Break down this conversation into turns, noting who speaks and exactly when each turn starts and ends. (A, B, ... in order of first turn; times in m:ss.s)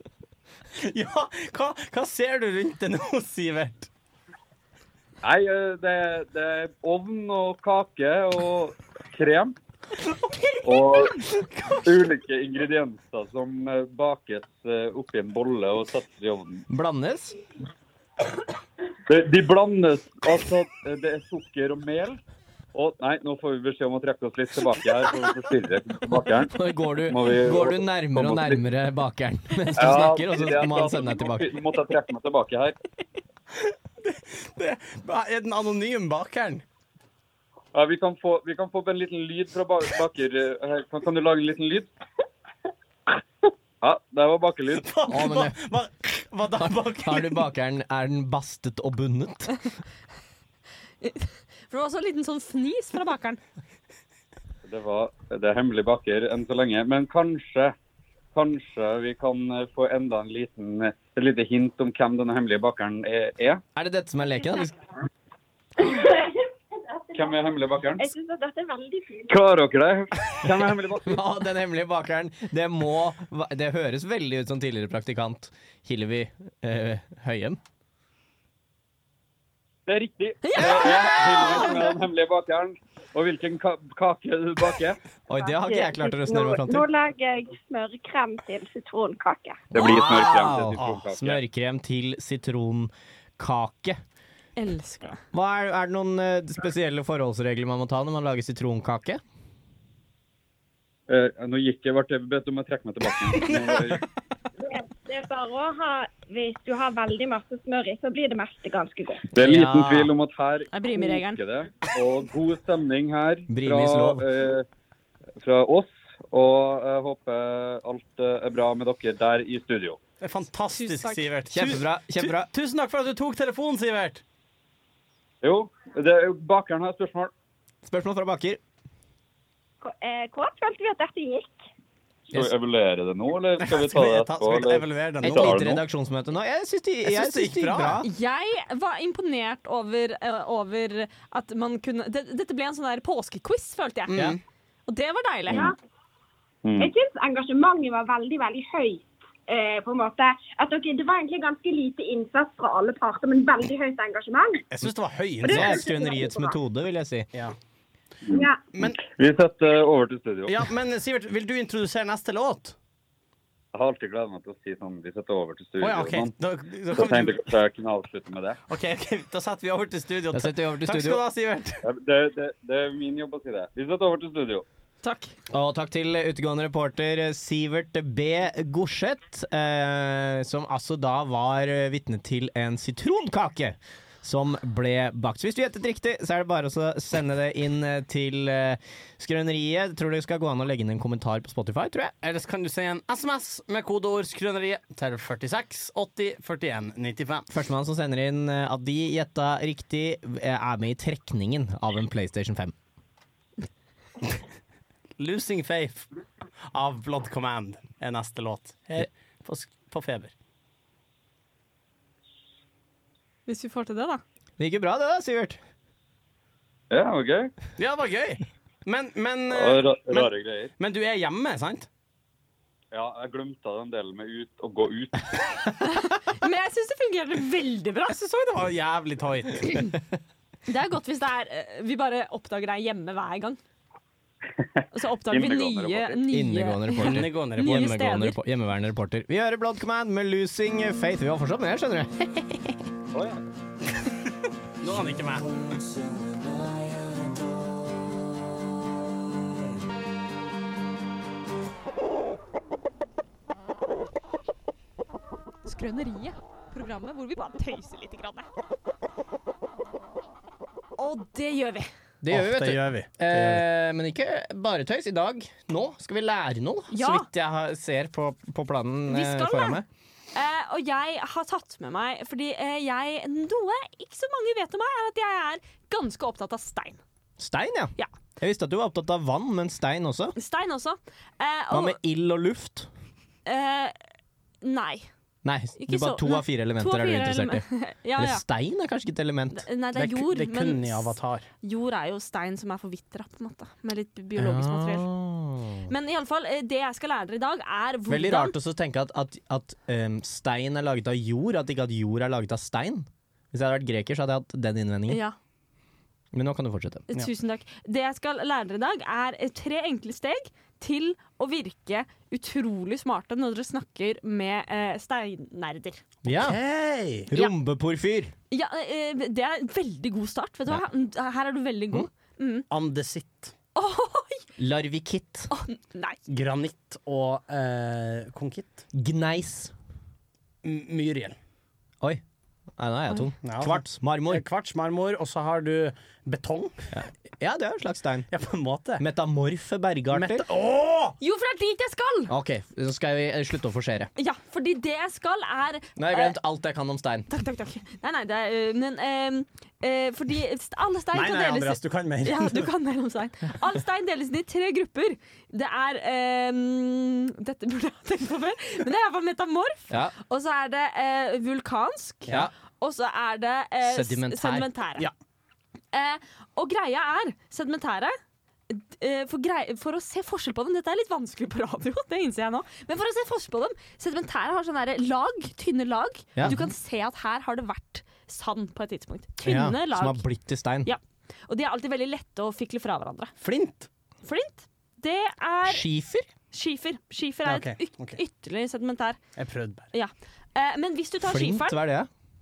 0:00.8-0:03.9 A
0:05.2-0:09.6 B
0:10.6-0:16.6 B
0:16.7-0:17.4 C
0:19.0-0:22.2 B
0:22.7-0:26.5 B
0:26.4-0:31.6 C
0:27.0-0:28.6 B
0:29.8-0:32.8 B
0:33.6-0:36.6 A
0:37.7-0:41.9 B
0:43.8-0:44.9 B
0:44.8-0:47.4 A
0:45.1-0:45.6 C
0:46.6-0:49.7 C
0:51.0-0:53.4 D
0:54.6-0:57.7 B
0:58.3-1:03.6 B
1:03.8-1:04.7 C
1:07.1-1:08.1 B
1:08.0-1:09.3 E
1:09.3-1:11.2 B
1:11.0-1:17.6 C
1:19.9-1:25.0 B
1:20.4-1:21.6 D
1:20.6-1:21.9 C
1:25.3-1:26.8 C
1:25.4-1:29.8 E
1:29.7-1:31.4 B
1:29.7-1:34.0 C
1:34.6-1:35.2 D
1:35.3-1:39.2 C
1:41.1-1:44.0 B
1:44.6-1:49.3 E
1:49.3-1:54.6 B
1:49.3-1:50.1 C
1:50.7-1:51.4 D
1:53.5-1:54.2 C
1:55.4-2:00.0 B
2:00.2-2:04.2 A
2:00.7-2:01.3 D
2:01.5-2:02.5 C
2:05.4-2:07.3 B
2:07.8-2:08.6 C
2:09.8-2:11.6 E
2:12.3-2:15.7 B
2:13.6-2:15.8 A
2:15.2-2:18.1 C
2:17.0-2:18.0 A
2:18.0-2:24.3 D
2:24.1-2:24.4 A
2:24.9-2:25.7 D
2:25.5-2:25.8 E
2:26.6-2:26.9 B
2:26.8-2:34.7 E
2:34.7-2:35.8 A
2:35.4-2:36.6 E
2:35.4-2:37.3 C
2:38.3-2:40.6 B
2:38.3-2:38.6 E
2:40.5-2:42.7 A
2:43.7-2:46.3 B
2:45.8-2:47.5 A
2:46.9-2:48.6 B
2:48.7-2:51.8 A
2:50.3-2:51.2 C
2:51.8-2:54.6 B
2:55.0-2:55.3 D
2:55.5-3:12.1 C
3:12.2-3:17.5 A
3:17.5-3:22.7 C
3:25.2-3:26.1 A
3:26.7-3:30.3 A
3:33.5-3:34.2 D
3:34.6-3:35.6 C
3:36.9-3:37.5 B
3:37.8-3:41.9 A
3:39.5-3:40.7 B
3:42.9-3:45.7 B
3:45.8-3:48.2 D
3:48.1-3:49.9 A
3:50.7-3:53.6 D
3:54.9-3:58.4 D
3:55.3-3:56.2 B
3:56.3-4:02.8 C
3:57.0-3:57.9 A
4:03.1-4:03.4 B
4:04.8-4:05.6 A
4:15.6-4:18.5 D
4:21.0-4:21.9 D
4:22.2-4:29.8 C
4:22.3-4:23.6 A
4:26.9-4:27.3 D
4:29.1-4:29.8 D
4:30.3-4:37.0 D
4:37.4-4:40.3 C
4:40.4-4:42.0 D
4:41.7-4:42.9 C
4:43.4-4:44.0 D
4:44.6-4:45.1 D
4:45.4-4:47.6 C
4:45.8-4:48.4 D
4:48.2-4:49.6 C
4:49.5-4:55.1 D
4:49.9-4:51.5 A
4:54.4-4:55.9 C
4:55.9-4:58.6 D
4:58.1-5:05.2 C
5:05.1-5:05.4 D
5:06.3-5:07.1 C
5:07.1-5:16.0 D
5:16.2-5:16.6 C
5:16.2-5:17.3 A
5:17.3-5:18.3 C
5:18.5-5:22.7 D
5:22.7-5:23.5 A
5:23.7-5:24.4 D
5:24.6-5:25.5 C
5:25.5-5:26.2 D
5:26.3-5:28.8 A
5:28.9-5:29.7 C
5:30.6-5:31.4 A
5:32.8-5:34.4 C
5:33.4-5:36.8 A
5:36.9-5:38.3 C
5:38.3-5:39.0 A
5:39.0-5:40.4 C
5:40.1-5:41.2 A
5:41.2-5:42.3 D
5:42.3-5:44.1 C
5:44.2-5:46.4 D
5:46.0-5:47.3 C
5:47.3-6:05.1 D
5:51.1-5:52.7 A
5:59.9-6:00.1 C
6:03.8-6:04.7 C
6:05.9-6:08.2 D
6:08.7-6:20.2 D
6:19.4-6:20.9 C
6:20.8-6:23.3 D
6:23.4-6:23.9 A
6:24.2-6:25.8 D
6:25.6-6:26.3 C
6:26.5-6:29.2 D
6:27.4-6:28.2 A
6:29.4-6:29.9 A
6:29.9-6:31.8 D
6:31.2-6:32.1 C